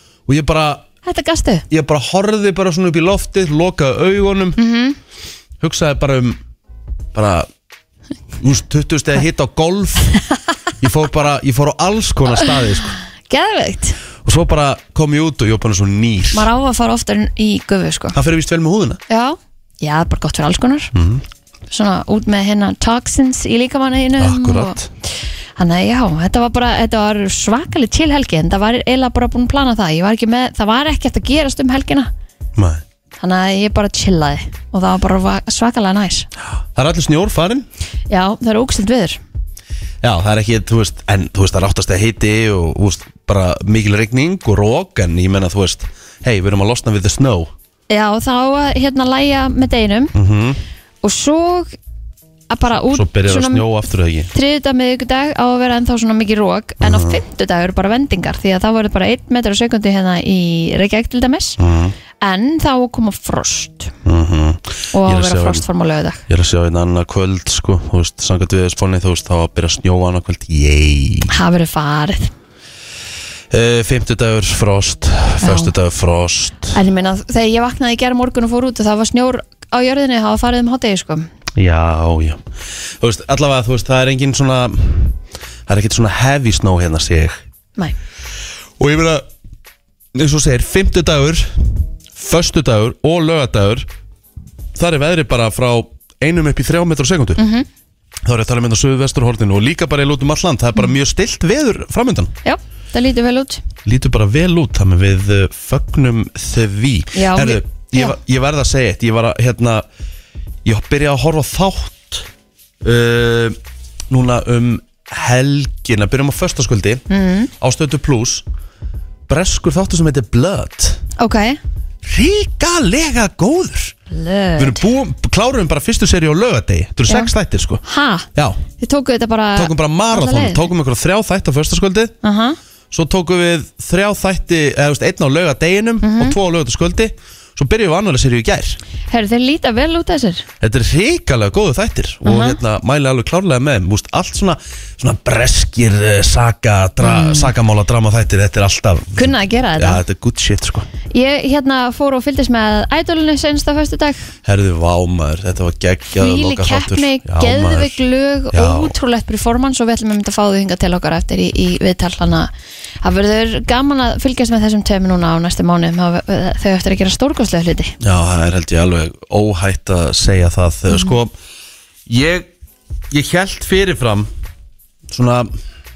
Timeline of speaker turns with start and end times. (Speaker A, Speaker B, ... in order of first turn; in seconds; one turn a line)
Speaker A: 0.3-0.8
Speaker B: 1.0-1.6
Speaker A: 1.7-4.6
Speaker B: 4.6-5.0
Speaker A: 5.6-6.4
Speaker A: 7.1-7.5
Speaker A: 8.4-10.2
Speaker A: 10.8-12.9
Speaker B: 12.4-14.0
Speaker A: 14.2-16.5
Speaker B: 16.3-18.1
Speaker A: 18.1-19.0
Speaker B: 19.1-20.9
Speaker A: 20.9-21.2
Speaker B: 21.7-24.8
Speaker A: 24.2-24.9
Speaker B: 25.6-32.1
Speaker A: 32.5-32.8
Speaker B: 33.2-36.3
Speaker A: 36.7-37.6
Speaker B: 38.1-39.2
Speaker A: 40.0-47.5
Speaker B: 47.9-50.1
Speaker A: 50.1-50.6
Speaker B: 51.0-51.8
Speaker B: 52.5-53.6
Speaker A: 52.9-54.3
Speaker B: 54.3-61.6
Speaker A: 56.8-57.2
Speaker A: 61.6-62.0
Speaker B: 62.2-63.9
Speaker A: 64.0-65.6
Speaker B: 64.9-66.2
Speaker A: 66.3-71.3
Speaker B: 71.3-72.3
Speaker A: 73.5-76.8
Speaker B: 75.4-75.7
Speaker B: 76.7-81.3
Speaker A: 81.5-82.4
Speaker A: 83.0-87.4
Speaker A: 88.8-89.2
Speaker A: 90.1-93.9
Speaker A: 94.8-97.4
Speaker B: 97.4-97.7
Speaker A: 98.2-102.3
Speaker B: 102.4-103.6
Speaker A: 103.8-109.8
Speaker B: 107.1-108.1
Speaker A: 110.6-112.3
Speaker A: 112.8-113.6
Speaker A: 114.1-117.0
Speaker B: 117.1-117.5
Speaker A: 117.6-118.4
Speaker A: 119.3-121.0
Speaker B: 121.2-121.6
Speaker A: 122.0-123.9
Speaker B: 124.1-124.8
Speaker A: 124.6-127.8
Speaker B: 127.8-128.2
Speaker A: 128.3-128.6
Speaker B: 128.8-130.7
Speaker A: 129.6-132.1
Speaker B: 132.2-132.6
Speaker A: 132.9-138.8
Speaker B: 136.0-136.4
Speaker B: 139.1-140.4
Speaker A: 140.6-150.9
Speaker B: 142.2-142.6
Speaker B: 147.0-147.5
Speaker B: 149.2-150.0
Speaker B: 151.1-154.2
Speaker A: 154.4-158.0
Speaker B: 156.1-162.5
Speaker A: 158.5-158.9
Speaker B: 163.0-167.9
Speaker A: 168.0-171.3
Speaker A: 172.1-172.5
Speaker A: 173.1-174.3
Speaker A: 175.1-175.5